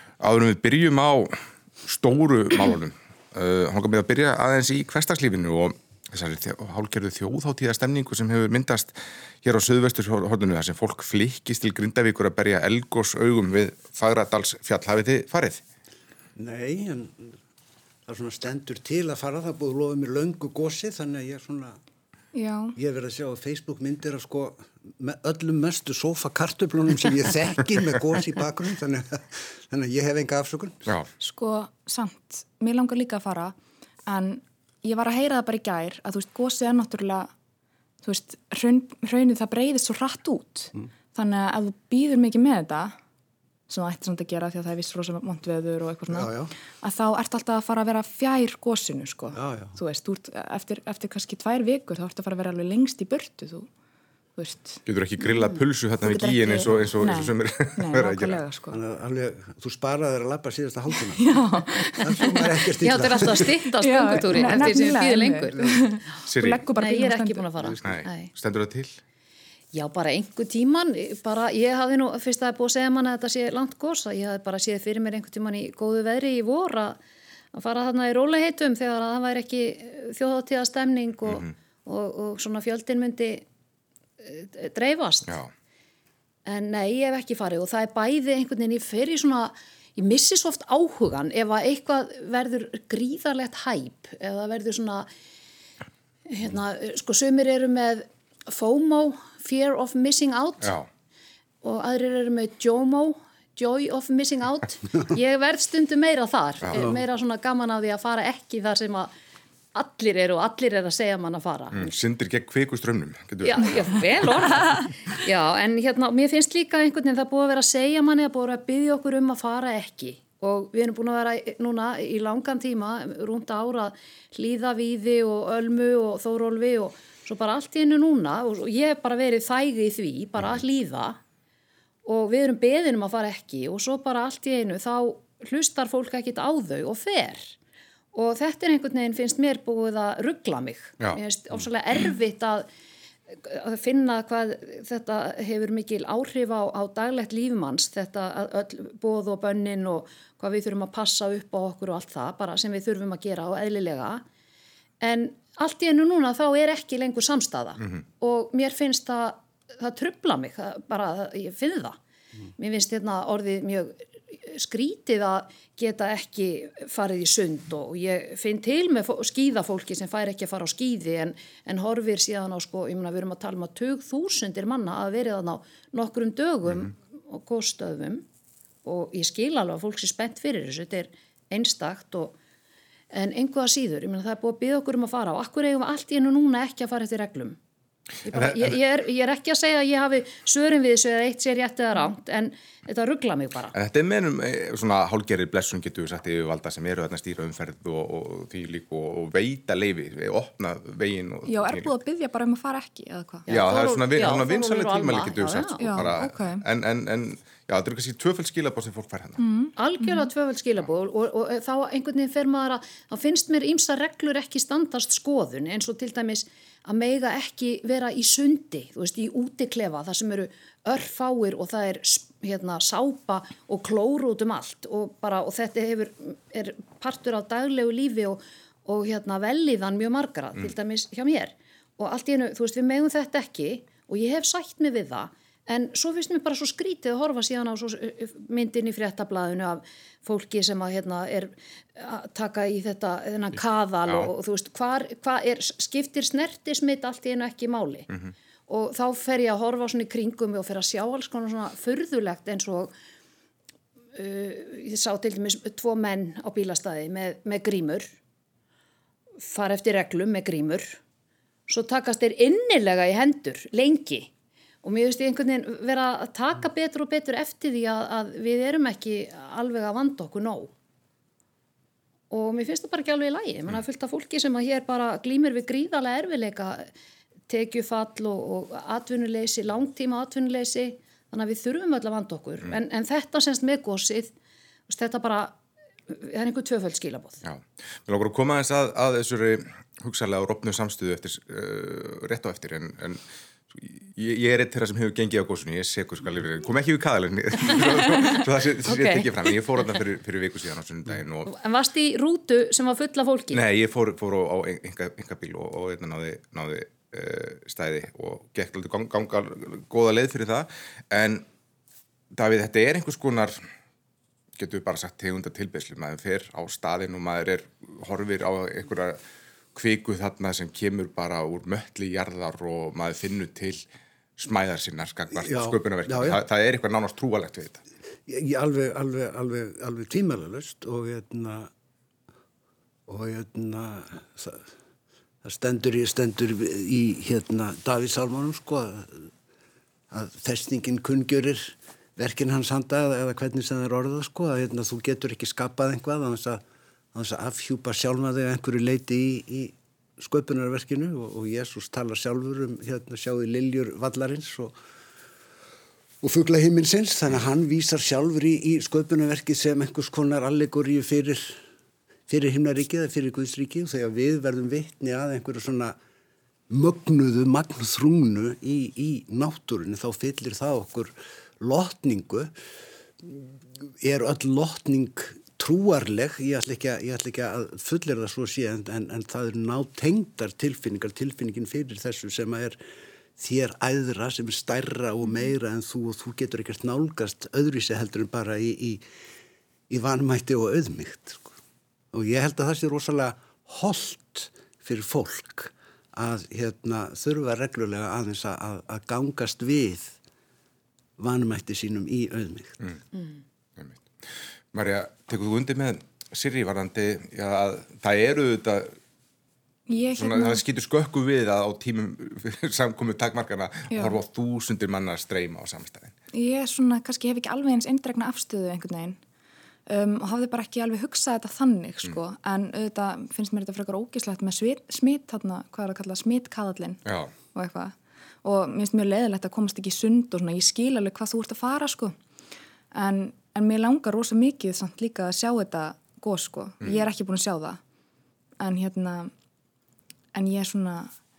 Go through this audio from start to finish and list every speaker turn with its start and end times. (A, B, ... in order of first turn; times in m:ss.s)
0:00.2-0:15.6 A
0:16.4-0:17.4 B
0:18.0-0:21.8 B
0:22.3-0:22.8 C
0:22.7-0:30.9 B
0:31.2-0:33.6 C
0:34.1-0:37.3 C
0:38.0-0:43.0 C
0:43.7-0:53.7 C
0:46.1-0:46.5 B
0:49.3-0:49.8 B
0:54.4-0:54.8 C
0:54.8-0:58.4 A
0:56.0-0:58.8 C
0:58.7-1:03.5 B
1:01.1-1:02.5 C
1:02.8-1:05.8 D
1:03.3-1:07.5 C
1:06.3-1:06.6 A
1:06.8-1:08.3 D
1:07.8-1:09.0 A
1:09.7-1:17.0 D
1:17.5-1:23.4 D
1:21.2-1:21.5 A
1:24.2-1:25.4 D
1:26.4-1:35.1 D
1:36.3-1:40.7 D
1:40.6-1:40.9 A
1:41.6-1:49.1 D
1:46.7-1:47.0 B
1:49.7-1:51.9 D
1:51.7-1:54.6 A
1:53.4-2:11.2 D
2:12.0-2:17.6 D
2:18.1-2:22.7 D
2:23.3-2:34.2 D
2:35.0-2:42.0 D
2:42.6-2:58.2 D
2:58.8-3:02.4 D
3:03.1-3:07.6 D
3:08.2-3:13.7 D
3:08.3-3:08.8 A
3:13.7-3:21.9 A
3:21.5-3:23.5 C
3:23.5-3:26.1 D
3:23.5-3:29.4 A
3:25.8-3:26.6 C
3:29.4-3:30.3 C
3:29.8-4:08.1 D
4:08.7-4:12.9 D
4:14.1-4:18.1 D
4:19.4-4:21.0 D
4:21.7-4:24.3 D
4:24.8-4:30.7 D
4:32.3-4:36.9 D
4:37.5-4:44.3 D
4:44.9-4:45.6 D
4:46.1-4:47.4 D
4:47.4-5:01.5 A
4:57.7-4:59.3 D
5:01.5-5:03.6 D
5:03.5-5:11.4 A
5:12.3-5:13.6 A
5:14.6-5:19.2 A
5:19.7-5:23.8 A
5:24.4-5:27.8 A
5:25.4-5:26.4 B
5:28.3-5:31.7 B
5:33.1-5:34.7 B
5:35.4-5:39.3 B
5:40.1-5:46.6 B
5:47.1-5:54.7 B
5:56.2-6:01.6 B
6:02.3-6:06.0 B
6:06.7-6:12.5 B
6:13.2-6:22.8 B
6:23.4-6:29.0 B
6:29.9-6:31.6 B
6:32.1-6:40.2 B
6:41.2-6:42.8 B
6:43.8-6:44.0 A
6:44.7-6:48.9 A
6:49.9-6:50.6 C
6:50.2-6:56.1 A
6:53.9-6:54.2 C
6:56.3-6:59.2 C
6:59.9-7:07.0 C
7:07.0-7:07.3 A
7:07.5-7:12.1 C
7:12.9-7:17.8 C
7:18.6-7:19.3 C
7:20.3-7:21.1 C